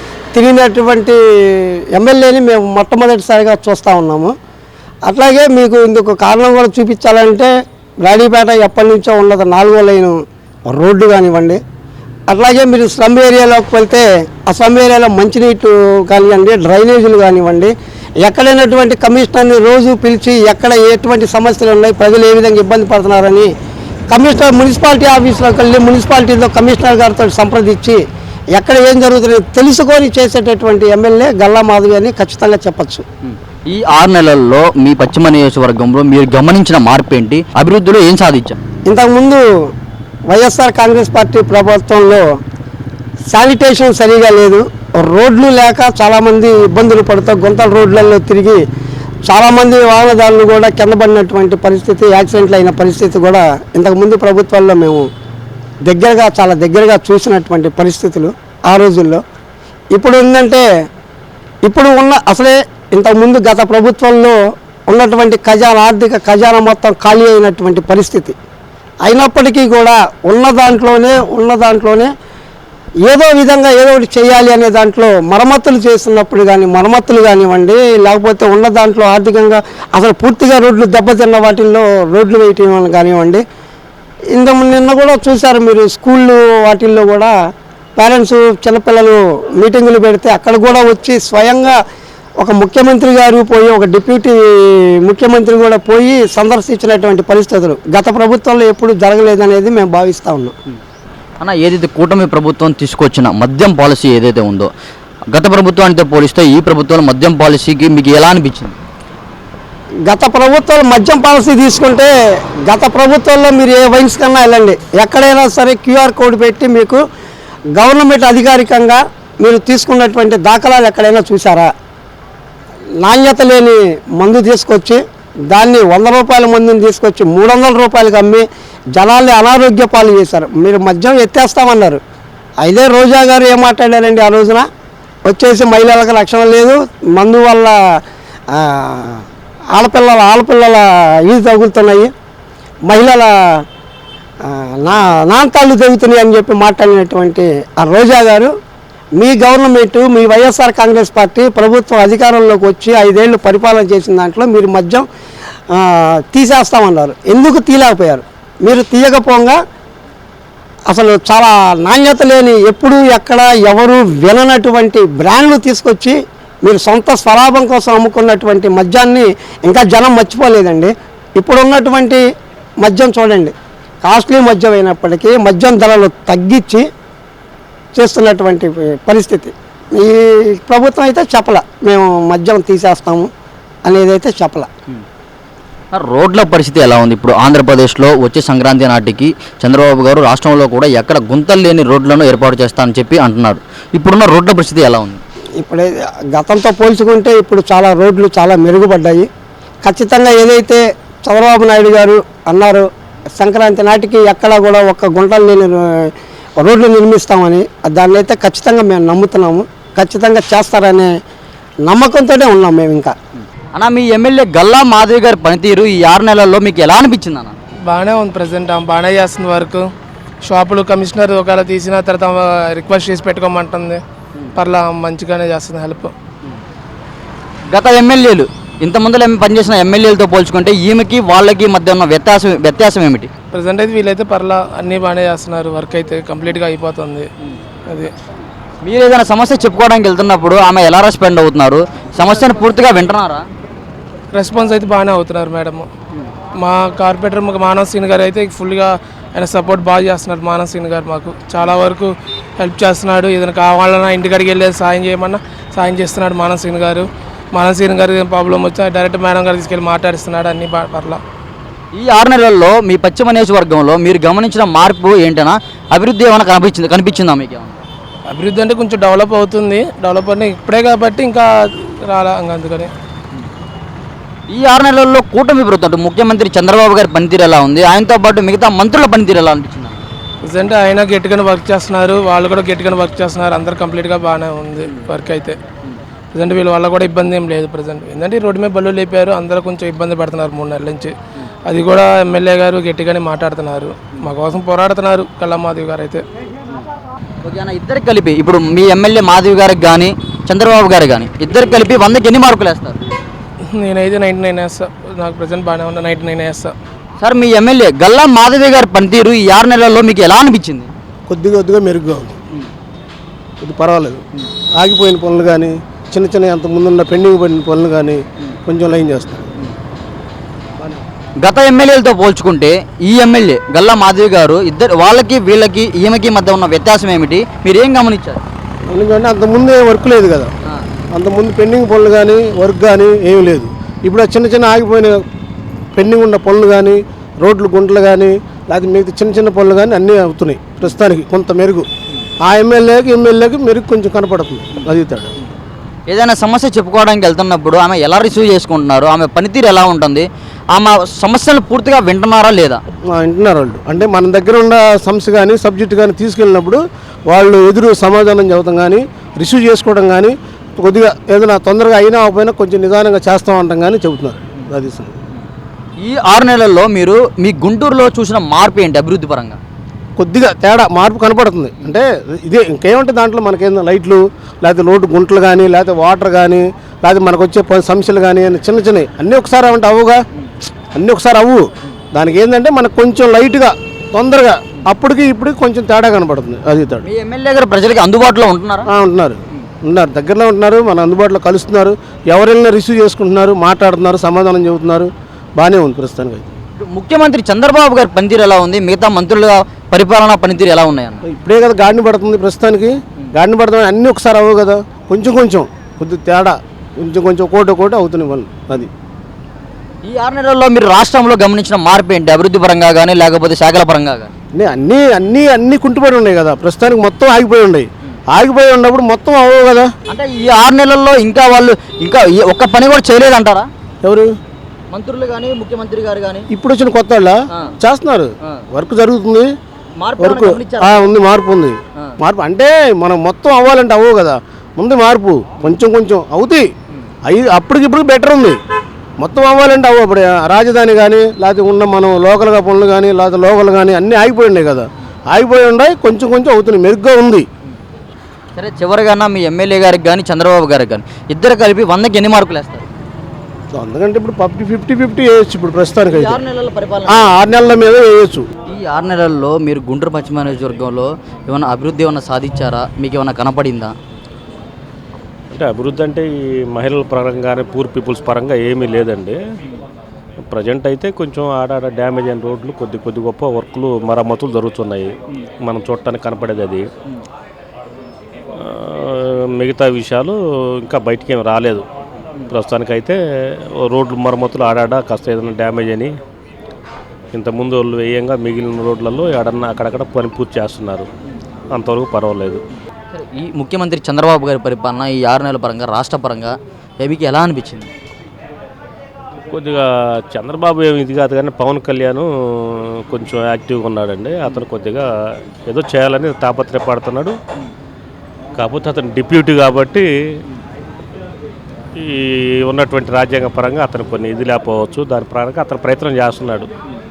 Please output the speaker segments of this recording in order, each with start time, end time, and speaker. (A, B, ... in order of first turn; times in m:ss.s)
0:00.3-0:04.3 A
0:05.1-0:07.5 A
0:08.0-0:11.6 A
0:12.3-0:23.5 A
0:24.1-0:28.0 A
0:28.5-0:33.0 A
0:33.2-0:38.6 B
0:38.9-0:39.7 A
0:40.3-0:42.4 A
0:43.3-0:48.6 A
0:49.2-0:55.1 A
0:55.8-0:59.2 A
0:59.9-1:00.6 A
1:01.6-1:08.4 A
1:09.0-1:12.1 A
1:13.0-1:23.4 A
1:24.3-1:27.3 A
1:28.0-1:31.8 A
1:32.4-1:40.5 A
1:41.4-1:44.7 B
1:45.3-1:48.8 B
1:50.1-1:52.1 A
1:52.6-1:57.0 A
1:57.8-2:01.7 A
2:03.0-2:12.0 A
2:12.6-2:14.7 A
2:15.2-2:18.0 A
2:18.5-2:22.1 A
2:22.9-2:23.6 A
2:24.4-2:28.5 A
2:29.2-2:35.0 A
2:35.7-2:39.6 A
2:40.9-2:52.2 A
2:52.8-2:53.5 A
2:54.0-2:56.9 A
2:57.9-3:03.3 A
3:03.8-3:04.7 A
3:05.9-3:15.2 B
3:15.6-3:19.3 A
3:19.8-3:31.1 A
3:31.8-3:33.1 A
3:33.7-3:37.6 B
3:37.9-3:39.9 C
3:40.5-3:44.0 C
3:44.5-3:46.1 C
3:47.7-3:53.3 B
3:53.5-3:57.3 C
3:58.8-4:03.4 B
4:04.3-4:05.9 C
4:06.6-4:21.2 C
4:21.9-4:27.8 B
4:28.3-4:32.9 C
4:34.5-4:40.0 B
4:40.4-4:45.6 C
4:46.3-4:51.1 C
4:51.7-4:56.2 C
4:57.4-5:03.0 B
5:03.7-5:06.7 C
5:07.2-5:10.9 B
5:11.3-5:12.3 D
5:13.6-5:14.2 D
5:14.8-5:19.5 D
5:21.4-5:28.4 B
5:28.9-5:30.5 D
5:31.1-5:35.2 D
5:36.0-5:41.9 D
5:42.4-5:45.3 D
5:46.1-5:52.8 B
5:53.1-6:05.2 D
6:06.0-6:09.6 B
6:10.2-6:20.2 D
6:20.9-6:27.0 D
6:27.0-6:28.9 B
6:28.9-6:36.5 D
6:36.8-6:41.2 B
6:41.2-6:48.9 D
6:50.0-6:54.3 B
6:54.5-6:59.9 D
7:00.1-7:03.7 B
7:04.0-7:04.3 D
7:04.9-7:06.5 B
7:06.5-7:09.5 D
7:10.0-7:11.1 B
7:10.2-7:16.7 D
7:17.3-7:18.6 D
7:19.2-7:27.4 D
7:28.6-7:32.9 B
7:33.7-7:36.4 D
7:36.1-7:37.3 B
7:37.1-7:38.4 D
7:38.6-7:43.9 B
7:45.5-7:49.4 E
7:50.4-7:55.1 E
7:55.6-7:56.9 E
7:58.6-8:01.8 E
8:02.5-8:03.2 E
8:03.8-8:06.1 E
8:07.3-8:11.1 E
8:11.7-8:12.6 E
8:13.1-8:17.9 B
8:19.5-8:25.0 E
8:25.7-8:27.4 E
8:28.6-8:30.1 E
8:32.0-8:36.7 E